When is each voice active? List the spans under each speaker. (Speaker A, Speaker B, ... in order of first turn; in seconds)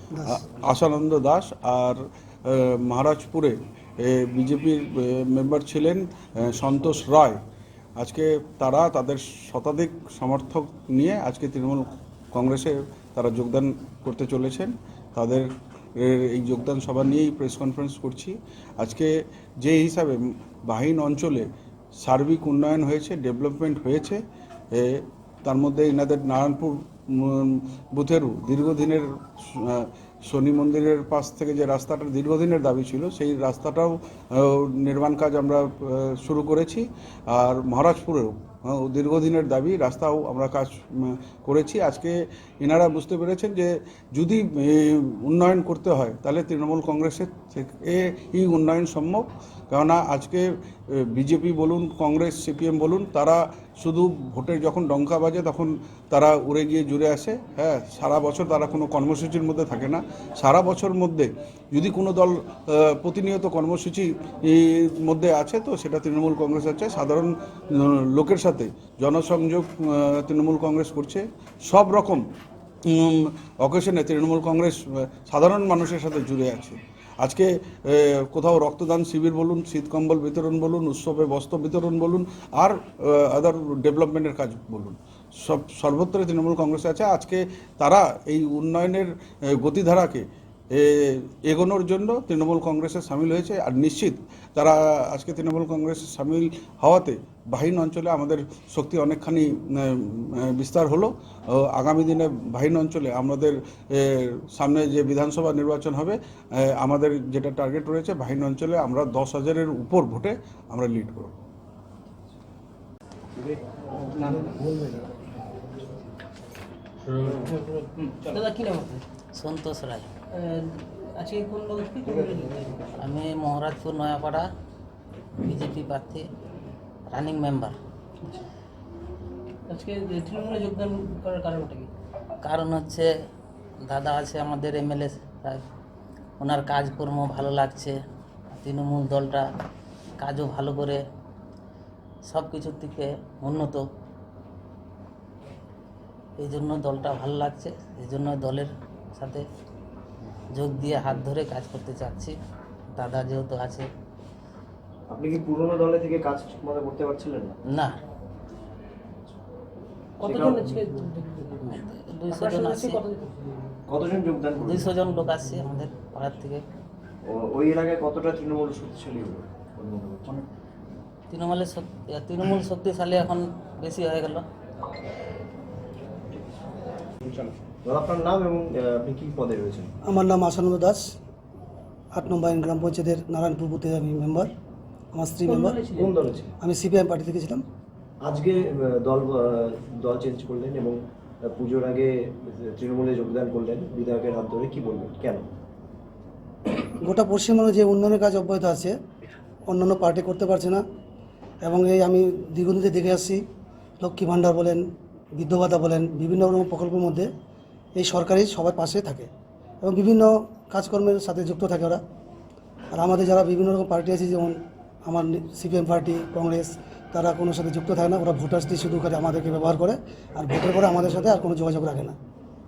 Speaker A: 0.1-0.4, 180.0-181.1, 182.1-184.5, 185.1-185.8, 186.6-187.6, 197.0-198.9, 199.7-200.8, 201.6-203.4, 204.0-204.8, 205.3-207.3, 207.9-209.3, 209.8-212.0, 212.9-222.1
Speaker B: 0.3-7.4, 8.0-21.5, 22.0-72.3, 72.9-111.4
Speaker C: 113.4-115.1, 117.1-118.3, 122.1-122.7, 155.1-157.6, 160.2-160.8, 163.9-164.9, 167.2-170.4, 177.8-179.9, 185.9-186.5, 188.2-195.5
Speaker D: 118.2-119.0, 120.3-122.8, 129.7-131.9, 160.2-163.4, 185.4-186.2
Speaker E: 119.4-120.1, 123.0-124.5, 125.4-126.3, 127.1-127.7, 132.4-133.1, 133.8-135.6, 136.4-138.0, 138.5-139.4, 140.2-141.0, 142.2-143.8, 146.4-149.4, 150.5-152.4, 152.9-153.9, 157.7-158.0, 161.7-163.0, 164.6-166.6, 171.3-174.4